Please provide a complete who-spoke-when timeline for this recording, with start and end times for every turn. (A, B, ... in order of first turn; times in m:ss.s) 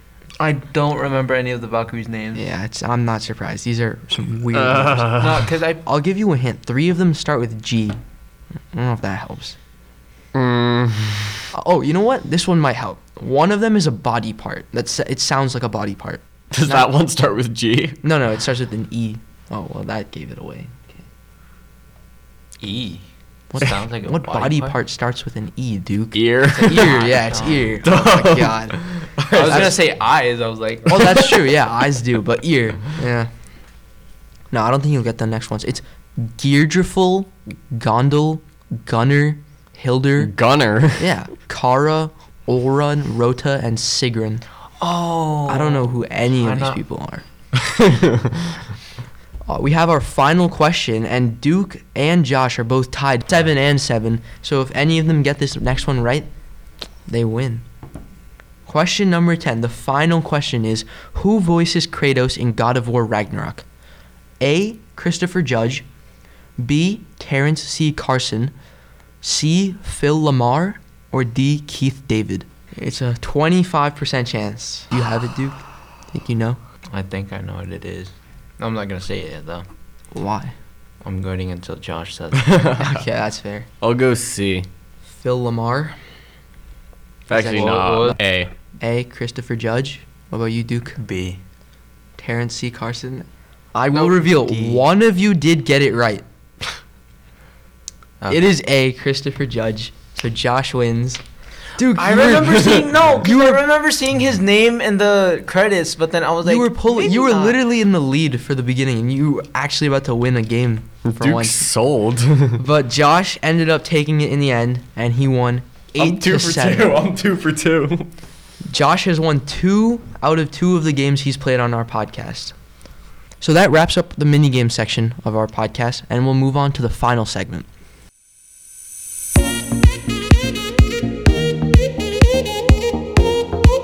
0:00.4-0:02.4 A
0:02.3-0:05.3 B
0:04.5-0:05.4 C
0:05.2-0:05.8 A
0:05.8-0:08.0 B
0:08.7-0:09.6 B
0:10.3-0:11.4 C
0:11.5-0:16.9 B
0:16.5-0:18.0 C
0:18.0-0:21.0 B
0:22.6-0:23.0 A
0:23.5-0:28.8 B
0:23.6-0:24.8 A
0:26.1-0:27.2 C
0:26.6-0:27.8 A
0:27.8-0:29.8 C
0:29.3-0:31.0 A
0:29.4-0:29.8 B
0:30.9-0:33.3 B
0:34.5-0:40.3 B
0:40.2-0:41.1 C
0:41.0-0:44.4 B
0:44.8-0:46.8 A
0:45.5-0:47.2 B
0:49.5-0:56.3 B
0:57.1-0:57.6 B
0:58.6-1:03.6 B
1:04.4-1:05.8 B
1:06.6-1:08.5 B
1:09.2-1:15.6 B
1:16.1-1:16.6 B
1:16.9-1:19.7 A
1:20.1-1:20.5 B
1:21.0-1:22.5 A
1:22.3-1:23.0 C
1:22.8-1:23.7 B
1:23.8-1:24.7 C
1:25.2-1:26.0 B
1:27.3-1:28.5 C
1:27.3-1:28.2 B
1:27.4-1:28.2 A
1:28.8-1:31.0 B
1:31.0-1:31.4 A
1:32.2-1:36.2 B
1:33.9-1:34.8 A
1:38.2-1:38.5 A
1:38.3-1:41.2 B
1:41.8-1:43.6 B
1:41.9-1:47.6 A
1:46.4-1:51.7 B
1:51.0-1:52.6 C
1:52.6-1:57.0 B
1:56.0-1:58.1 C
1:58.6-2:02.5 B
2:03.4-2:07.7 B